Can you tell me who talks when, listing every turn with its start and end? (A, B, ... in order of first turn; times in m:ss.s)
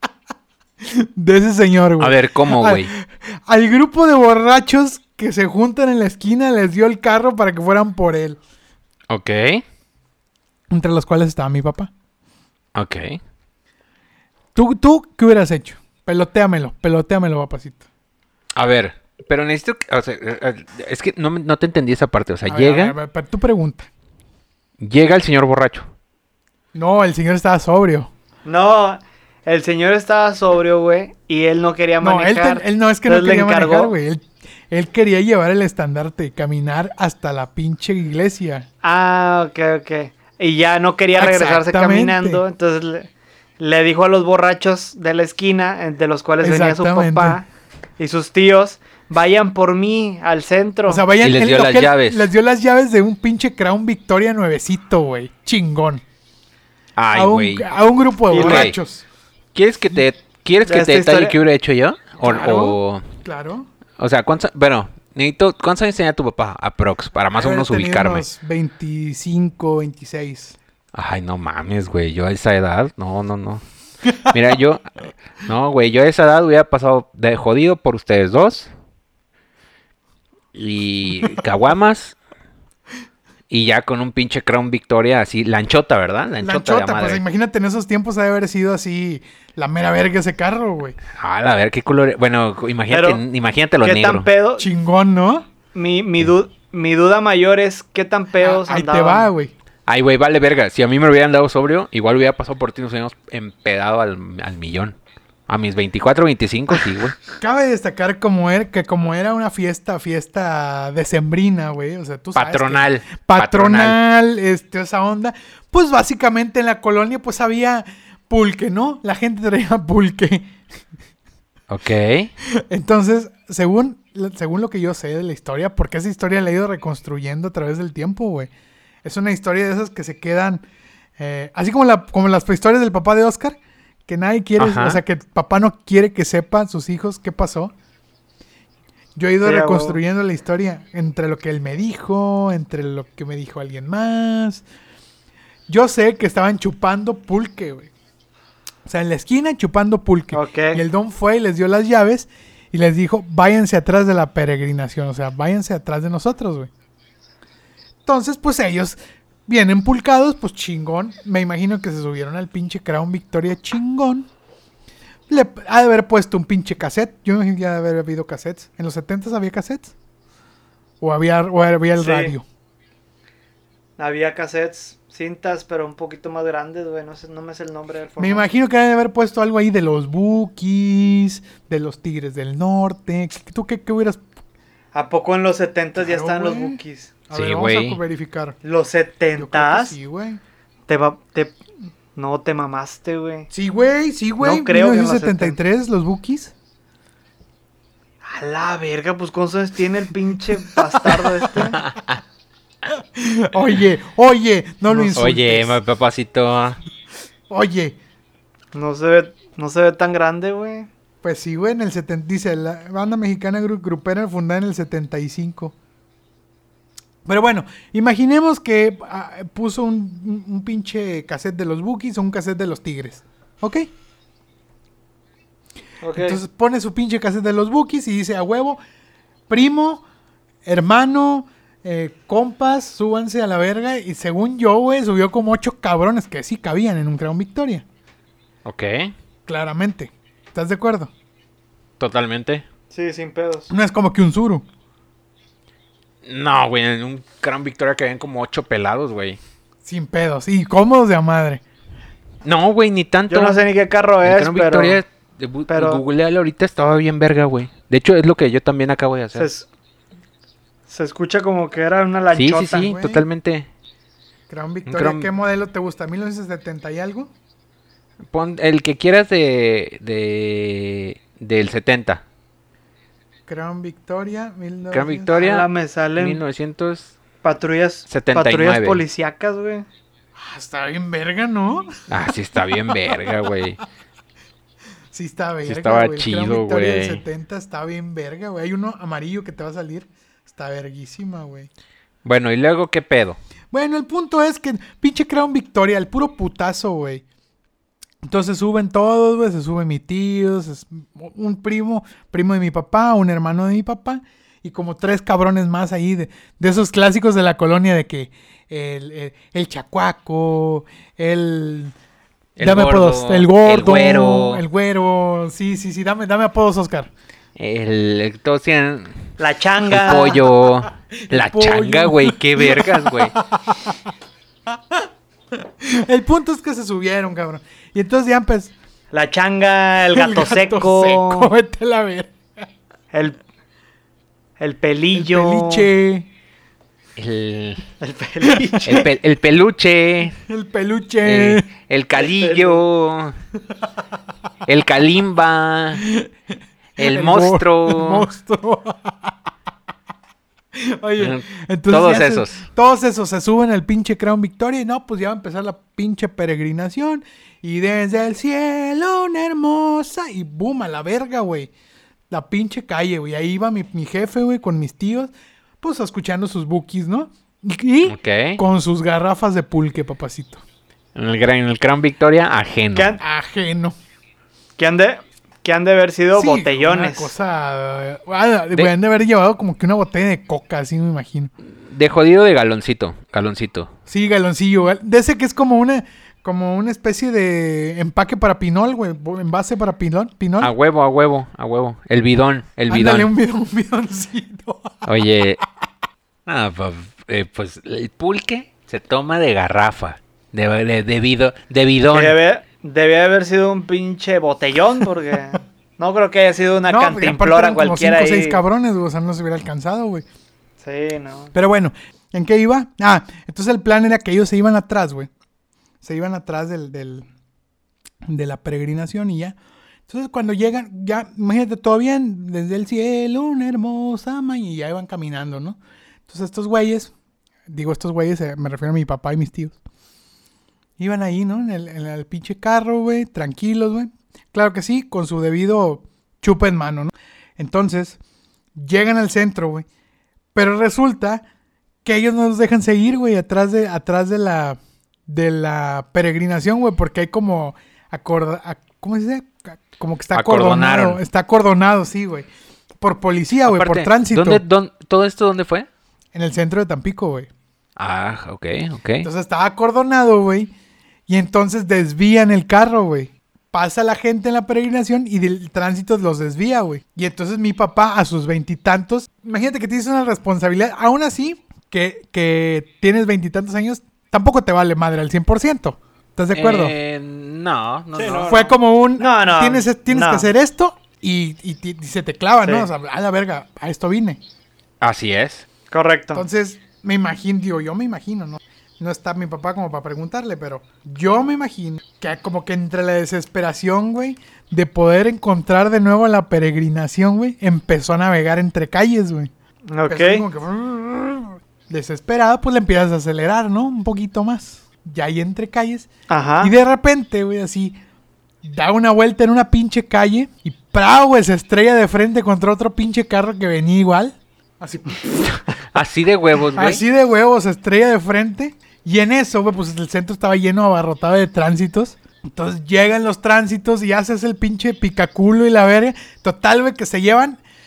0:00.8-0:08.4 A
0:02.0-0:02.9 B
0:09.1-0:09.6 B
0:10.7-0:11.9 A
0:12.7-0:13.2 B
0:14.5-0:17.8 A
0:18.5-0:22.9 B
0:22.4-0:23.9 A
0:24.8-0:25.9 B
0:26.7-0:28.1 A
0:28.4-0:33.9 C
0:32.0-0:38.7 A
0:38.8-0:47.4 C
0:41.2-0:42.4 A
0:46.4-0:47.4 A
0:48.0-0:51.0 C
0:50.9-0:56.0 A
0:51.2-0:52.2 B
0:57.0-0:57.7 B
0:57.1-0:59.0 A
0:58.3-0:58.7 C
0:58.4-0:58.8 B
0:59.5-1:03.0 B
1:00.6-1:01.4 C
1:02.2-1:03.7 A
1:04.0-1:08.2 B
1:07.3-1:10.6 A
1:10.9-1:13.6 B
1:14.2-1:18.7 B
1:20.5-1:22.2 B
1:23.5-1:27.2 B
1:26.4-1:31.0 A
1:31.1-1:34.3 B
1:32.9-1:33.2 C
1:33.8-1:34.7 C
1:34.6-1:35.5 A
1:35.7-1:39.3 C
1:38.4-1:39.5 A
1:39.9-1:45.0 B
1:45.5-1:47.2 B
1:47.4-2:00.6 A
1:52.3-1:54.0 B
2:01.7-2:02.3 B
2:02.6-2:08.5 A
2:09.0-2:10.6 A
2:11.2-2:17.7 A
2:14.6-2:15.0 B
2:19.2-2:24.6 A
2:19.4-2:20.0 C
2:25.7-2:27.9 A
2:28.8-2:36.7 A
2:30.3-2:30.8 C
2:38.0-2:44.3 A
2:45.3-2:49.9 A
2:51.0-2:52.4 A
2:52.0-2:52.3 C
2:54.0-2:58.4 C
2:58.2-3:04.2 A
3:04.9-3:07.1 C
3:06.0-3:08.6 A
3:07.3-3:08.0 B
3:08.6-3:10.0 C
3:09.4-3:10.4 A
3:10.9-3:11.6 C
3:12.2-3:13.5 C
3:13.5-3:16.5 A
3:14.4-3:15.6 C
3:18.2-3:21.8 C
3:21.8-3:22.2 B
3:22.9-3:25.7 A
3:25.1-3:26.8 B
3:27.5-3:28.0 A
3:28.7-3:30.9 C
3:31.2-3:35.7 A
3:37.2-3:43.9 A
3:46.0-3:46.4 C
3:46.1-3:48.8 A
3:49.5-3:50.0 A
3:50.6-3:57.8 A
3:58.6-3:59.1 B
3:59.5-4:01.1 A
4:02.0-4:02.6 B
4:02.9-4:03.7 C
4:03.7-4:04.6 A
4:06.2-4:09.4 B
4:09.8-4:11.6 A
4:12.4-4:13.6 B
4:13.3-4:15.0 C
4:14.2-4:19.5 B
4:15.7-4:16.0 C
4:19.3-4:19.7 C
4:20.9-4:22.9 C
4:22.3-4:23.7 B
4:22.8-4:23.2 A
4:24.5-4:27.3 A
4:24.8-4:25.3 B
4:28.3-4:32.2 B
4:33.5-4:35.4 A
4:34.9-4:37.1 B
4:35.3-4:36.4 C
4:37.4-4:39.9 C
4:38.1-4:39.0 B
4:40.4-4:42.0 A
4:42.1-4:43.8 B
4:42.7-4:43.5 A
4:45.1-4:51.7 A
4:45.6-4:47.2 B
4:52.2-4:53.4 B
4:53.7-4:57.2 A
4:58.2-5:11.9 A
5:12.6-5:14.6 B
5:12.6-5:17.1 A
5:17.6-5:19.1 B
5:19.4-5:20.4 C
5:19.8-5:23.3 B
5:21.2-5:24.0 A
5:24.7-5:28.7 A
5:29.1-5:31.5 C
5:30.1-5:32.3 A
5:33.1-5:33.4 C
5:34.6-5:35.9 C
5:35.1-5:36.3 A
5:37.2-5:37.8 B
5:38.0-5:39.0 C
5:38.4-5:39.0 A
5:38.8-5:40.4 B
5:40.5-5:41.7 A
5:41.2-5:43.4 B
5:42.2-5:42.8 C
5:44.6-5:46.0 B
5:46.0-5:46.3 A
5:47.0-5:49.3 A
5:47.0-5:48.3 B
5:50.7-6:01.7 A
5:51.2-5:52.6 B
6:02.3-6:10.6 A
6:08.0-6:08.6 B
6:11.2-6:13.2 B
6:13.2-6:13.9 A
6:14.8-6:17.3 C
6:16.3-6:21.5 A
6:21.8-6:23.9 B
6:24.1-6:30.7 A
6:30.6-6:33.3 B
6:32.9-6:35.0 A
6:35.0-6:35.6 B
6:36.4-6:42.4 B
6:42.1-6:48.6 C
6:46.9-6:50.2 A
6:50.8-6:51.5 C
6:51.5-6:55.3 A
6:56.0-6:57.3 A
6:58.2-6:59.6 A
7:00.1-7:07.1 A
7:07.7-7:09.8 A
7:11.0-7:18.2 A
7:18.7-7:19.8 A
7:20.5-7:21.4 A
7:22.0-7:32.5 A
7:30.3-7:31.2 B
7:33.0-7:34.6 A
7:33.6-7:35.9 B
7:36.3-7:37.5 A
7:38.0-7:39.3 B
7:39.2-7:40.7 A
7:41.3-7:56.9 A
7:56.5-7:58.5 B
7:58.1-8:00.5 C
7:58.4-8:04.4 A
8:02.6-8:02.9 C
8:05.0-8:05.6 B
8:05.9-8:06.4 C
8:06.3-8:19.5 A
8:19.9-8:20.4 C
8:20.1-8:26.1 A
8:26.3-8:26.7 C
8:26.6-8:28.0 A
8:28.6-8:35.6 A
8:35.9-8:37.0 B
8:36.7-8:47.6 A